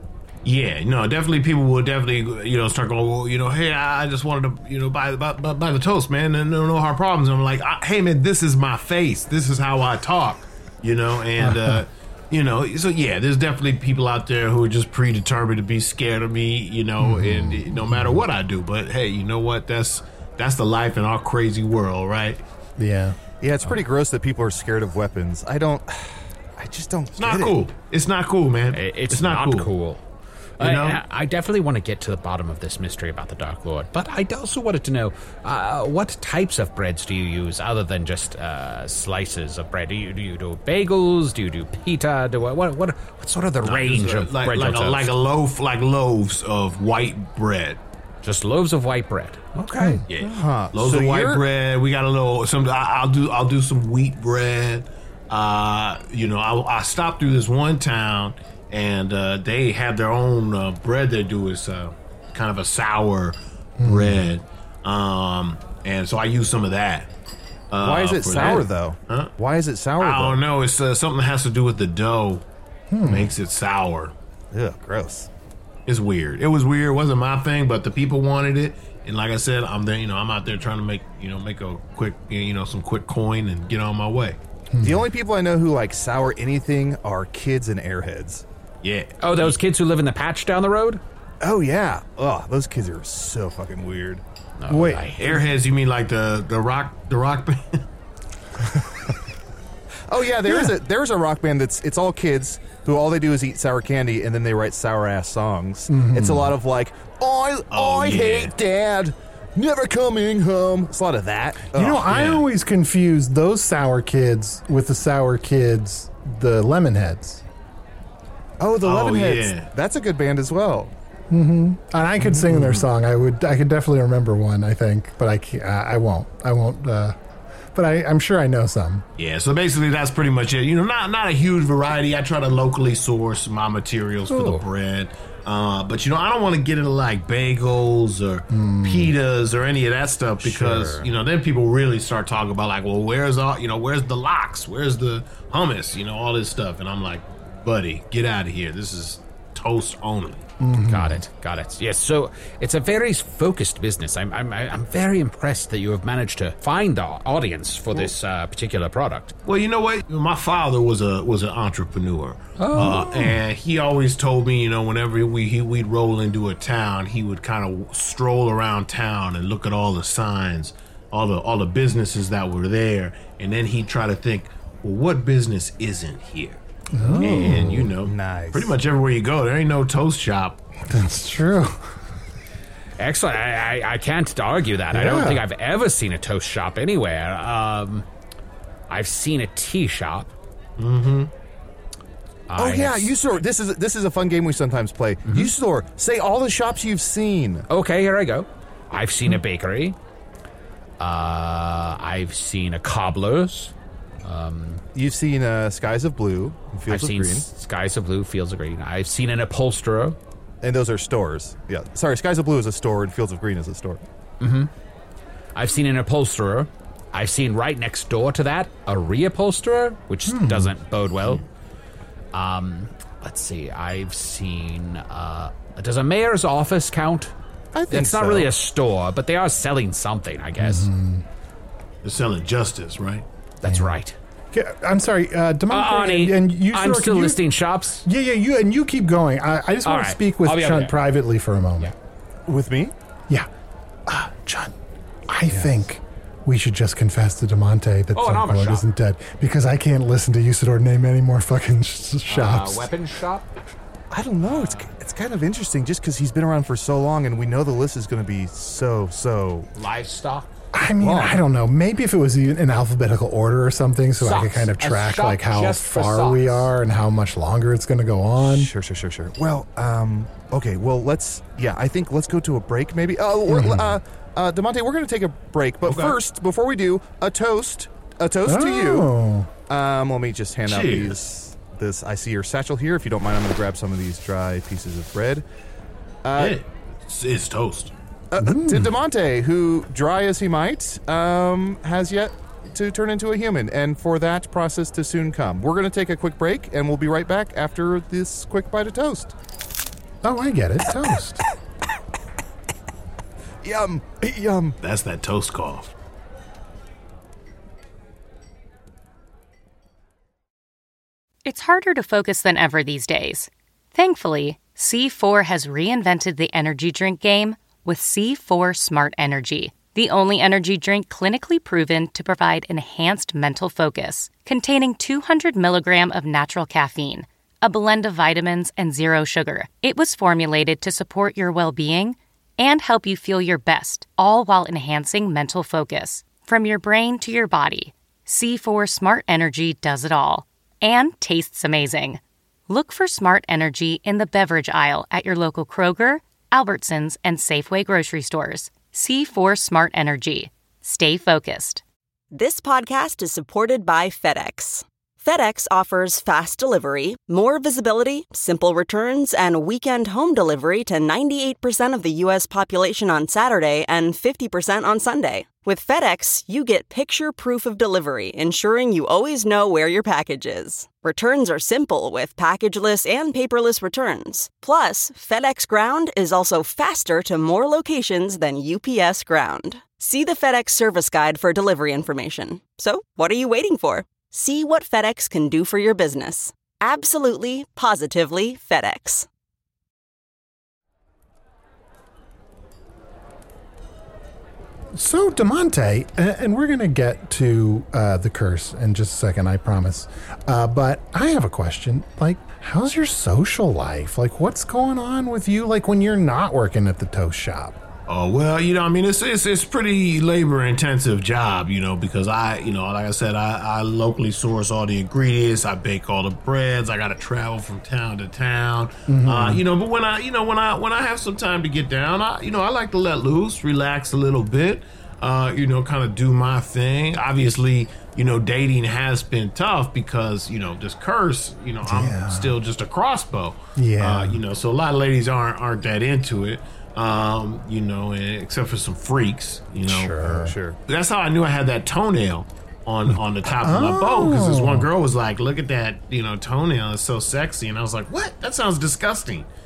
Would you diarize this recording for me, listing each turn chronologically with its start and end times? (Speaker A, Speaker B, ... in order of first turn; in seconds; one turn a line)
Speaker A: 0.5-22.4
Speaker B: 11.4-11.8
Speaker B: 17.0-18.2
Speaker B: 22.8-23.2
Speaker C: 23.4-27.6
Speaker A: 27.2-29.7
Speaker D: 28.7-30.0
Speaker D: 30.6-45.1
Speaker A: 30.6-31.0
Speaker A: 43.6-47.8
Speaker D: 48.2-50.0
Speaker B: 49.7-50.0
Speaker A: 50.1-67.1
Speaker C: 50.2-51.4
Speaker B: 63.8-64.2
Speaker A: 67.7-69.3
Speaker C: 67.8-70.4
Speaker A: 70.0-72.4
Speaker B: 72.9-73.3
Speaker A: 73.1-74.1
Speaker C: 74.5-75.3
Speaker A: 75.9-84.4
Speaker B: 84.7-85.1
Speaker C: 84.8-88.4
Speaker A: 88.8-89.6
Speaker D: 89.2-91.0
Speaker C: 91.4-94.2
Speaker D: 94.6-95.3
Speaker B: 94.7-95.1
Speaker A: 95.2-97.8
Speaker C: 100.1-112.1
Speaker B: 100.5-100.7
Speaker B: 105.9-106.5
Speaker A: 107.7-108.5
Speaker B: 111.7-117.4
Speaker A: 112.1-112.4
Speaker C: 118.6-120.9
Speaker A: 118.8-119.7
Speaker B: 121.3-127.2
Speaker A: 122.5-122.8
Speaker B: 127.7-129.1
Speaker A: 129.2-150.4
Speaker B: 134.3-134.6
Speaker B: 138.5-139.2
Speaker C: 140.4-141.1
Speaker B: 150.6-151.2
Speaker D: 150.9-159.3
Speaker A: 159.4-176.6
Speaker D: 162.6-163.3
Speaker B: 176.9-177.9
Speaker C: 177.1-178.8
Speaker A: 177.2-180.6
Speaker B: 180.9-181.8
Speaker D: 183.0-188.1
Speaker B: 184.9-185.4
Speaker D: 188.9-190.3
Speaker A: 190.8-191.3
Speaker D: 192.5-193.2
Speaker C: 192.6-197.7
Speaker D: 195.3-195.5
Speaker D: 197.7-200.0
Speaker D: 201.0-204.8
Speaker C: 204.9-207.5
Speaker D: 206.9-210.2
Speaker C: 210.6-214.0
Speaker D: 214.4-214.7
Speaker D: 215.6-221.4
Speaker B: 220.3-220.8
Speaker D: 222.3-227.3
Speaker C: 227.7-228.5
Speaker D: 227.9-230.9
Speaker B: 230.6-231.2
Speaker A: 232.0-233.2
Speaker D: 233.6-234.2
Speaker B: 233.7-234.0
Speaker B: 234.5-237.4
Speaker D: 235.7-238.1
Speaker B: 238.1-241.9
Speaker D: 239.8-241.0
Speaker C: 242.5-242.9
Speaker B: 244.1-244.7
Speaker B: 245.3-252.9
Speaker D: 248.1-248.9
Speaker D: 252.3-253.5
Speaker C: 254.1-259.7
Speaker D: 254.5-254.9
Speaker D: 259.8-260.5
Speaker B: 260.7-268.7
Speaker C: 261.0-261.4
Speaker D: 264.2-266.7
Speaker C: 268.4-279.1
Speaker B: 273.5-274.0
Speaker A: 275.9-276.1
Speaker B: 278.4-279.5
Speaker C: 279.7-285.4
Speaker A: 280.7-281.2
Speaker C: 286.2-286.6
Speaker A: 286.4-287.9
Speaker C: 288.3-299.3
Speaker B: 288.4-288.9
Speaker B: 300.2-301.4
Speaker C: 303.6-304.8
Speaker A: 304.8-305.9
Speaker E: 311.4-351.8
Speaker F: 352.3-389.3
Speaker B: 394.9-407.8
Speaker A: 408.1-449.5
Speaker B: 419.1-419.6
Speaker B: 431.8-432.6
Speaker B: 433.8-434.4
Speaker B: 439.9-440.6
Speaker C: 440.2-440.8
Speaker B: 443.1-444.9